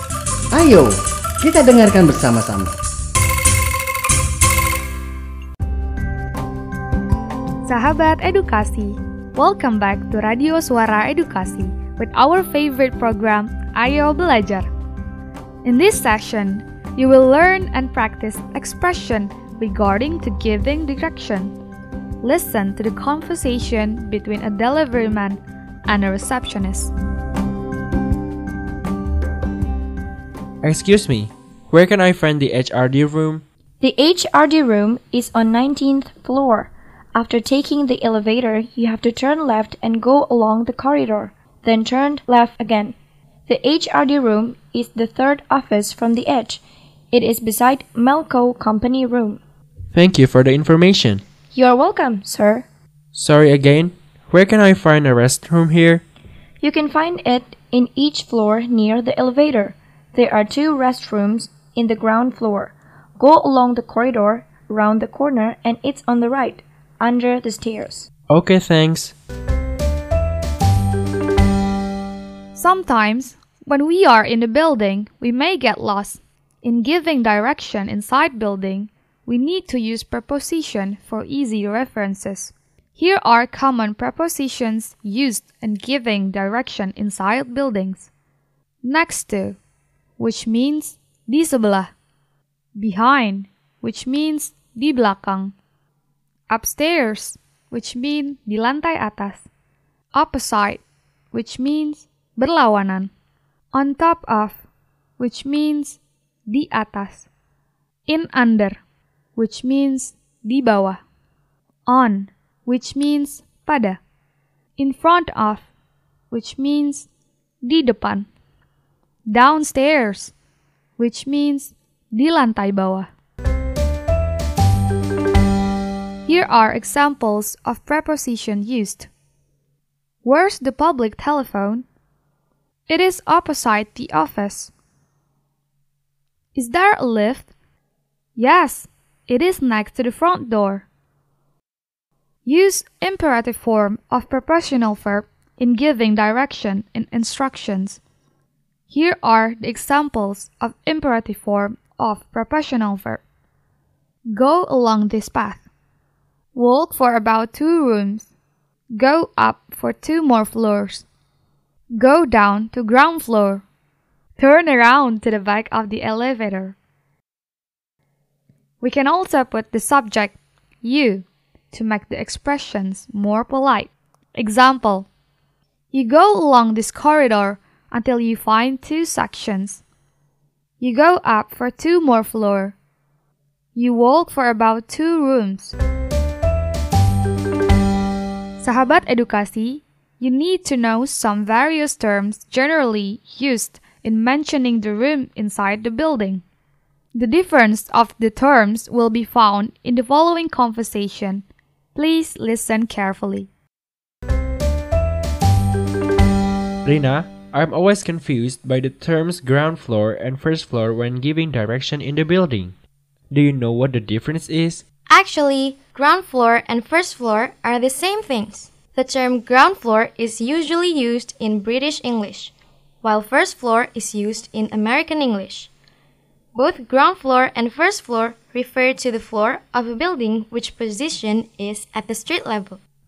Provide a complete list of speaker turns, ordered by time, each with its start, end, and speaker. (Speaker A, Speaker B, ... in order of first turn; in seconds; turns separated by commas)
Speaker A: 0.5-2.7, Speaker B: 7.6-14.7, Speaker B: 15.6-21.5, Speaker B: 22.2-26.9, Speaker C: 30.6-33.4, Speaker D: 33.8-42.9, Speaker D: 43.5-49.4, Speaker C: 49.9-51.2, Speaker D: 51.5-52.6, Speaker C: 53.1-56.0, Speaker D: 56.6-68.1, Speaker C: 68.3-69.1, Speaker B: 72.5-88.1, Speaker B: 88.8-89.6, Speaker B: 90.2-91.9, Speaker B: 92.7-95.5, Speaker B: 96.5-99.5, Speaker B: 100.1-103.1, Speaker B: 103.7-104.6, Speaker B: 105.2-107.3, Speaker B: 108.1-108.8, Speaker B: 109.3-111.0, Speaker B: 111.9-114.0, Speaker B: 114.8-115.7, Speaker B: 116.3-117.1, Speaker B: 117.6-118.3, Speaker B: 119.3-120.3, Speaker B: 121.0-123.1, Speaker B: 126.2-129.1, Speaker B: 130.2-131.8, Speaker B: 132.9-134.7, Speaker B: 136.5-137.5, Speaker B: 138.3-140.8, Speaker B: 142.4-148.0, Speaker B: 148.9-153.2, Speaker B: 154.3-155.7, Speaker B: 156.5-158.3, Speaker B: 158.9-161.1, Speaker B: 161.9-163.6, Speaker B: 164.4-166.8, Speaker B: 168.8-175.1, Speaker B: 175.9-179.8, Speaker B: 180.8-182.8, Speaker B: 183.7-185.7, Speaker B: 188.6-196.4, Speaker B: 197.1-203.5, Speaker C: 206.8-212.7, Speaker C: 213.3-214.8, Speaker E: 215.1-225.7, Speaker E: 226.5-232.8